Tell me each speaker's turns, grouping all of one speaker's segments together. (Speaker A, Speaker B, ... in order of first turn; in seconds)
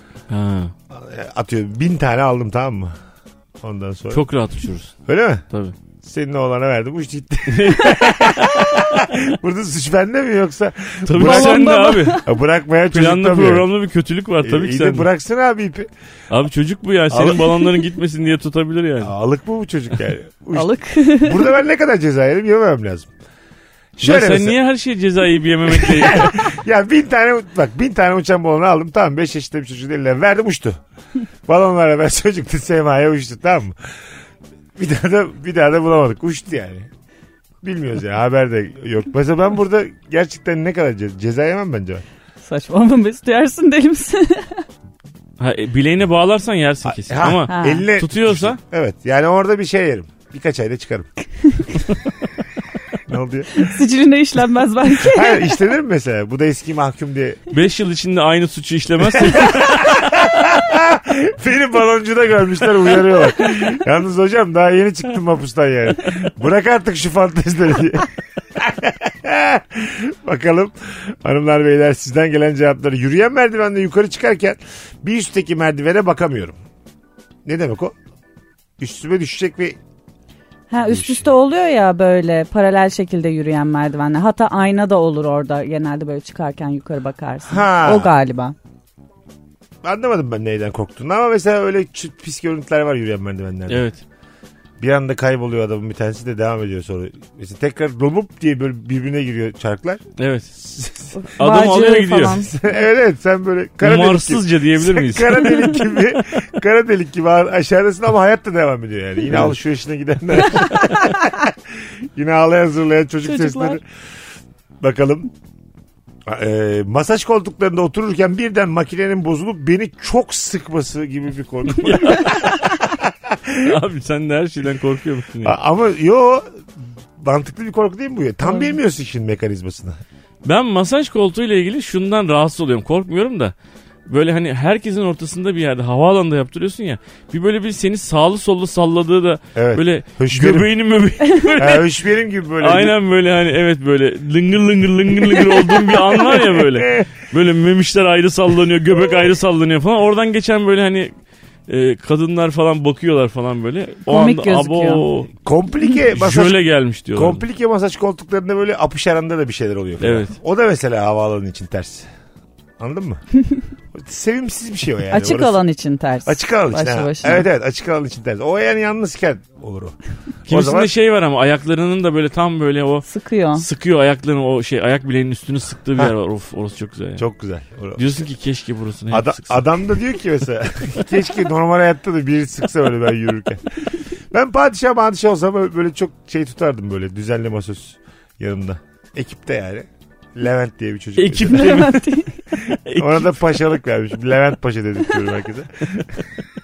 Speaker A: 0.3-0.7, 4.1-4.9, 5.5-5.8, 7.5-8.8, 11.1-12.2, 12.9-15.1, 16.3-19.1, 24.0-26.5, 45.4-48.6, 57.5-60.1, 93.7-94.0, 100.2-100.5, 101.4-102.4, 103.8-105.7, 121.8-122.6, 123.6-125.6, 130.4-133.5, 134.1-141.9, 142.6-151.1, 151.7-155.3, 156.1-157.4, 160.0-160.3, 170.5-177.2, 177.9-179.6, 191.2-192.1, 192.9-193.4
Speaker B: 0.9-2.9, 3.6-4.2, 5.0-5.4, 6.0-13.7, 14.4-15.9, 17.1-17.5, 19.0-23.1, 24.0-24.6, 25.7-30.8, 31.5-33.8, 34.8-36.9, 37.6-42.0, 46.8-51.1, 53.0-53.6, 55.0-57.4, 59.2-76.5, 77.4-77.9, 78.8-79.8, 80.8-81.3, 87.5-88.1, 89.8-93.8, 94.8-100.0, 100.5-101.2, 102.3-111.5, 112.1-113.8, 114.8-115.3, 116.3-123.7, 125.4-126.5, 127.2-130.0, 139.5-140.7, 141.6-142.9, 146.3-147.1, 155.4-156.6, 157.1-162.1, 162.8-163.2, 163.9-165.6, 166.2-170.9, 177.2-178.2, 179.1-183.7, 184.3-191.9, 192.9-196.1
Speaker C: 11.2-12.3, 20.5-21.5, 42.4-44.6, 47.5-47.9, 53.5-55.5, 80.7-88.5, 101.1-102.5, 113.2-113.8, 154.1-155.0, 165.1-167.5, 173.1-173.6, 191.5-192.3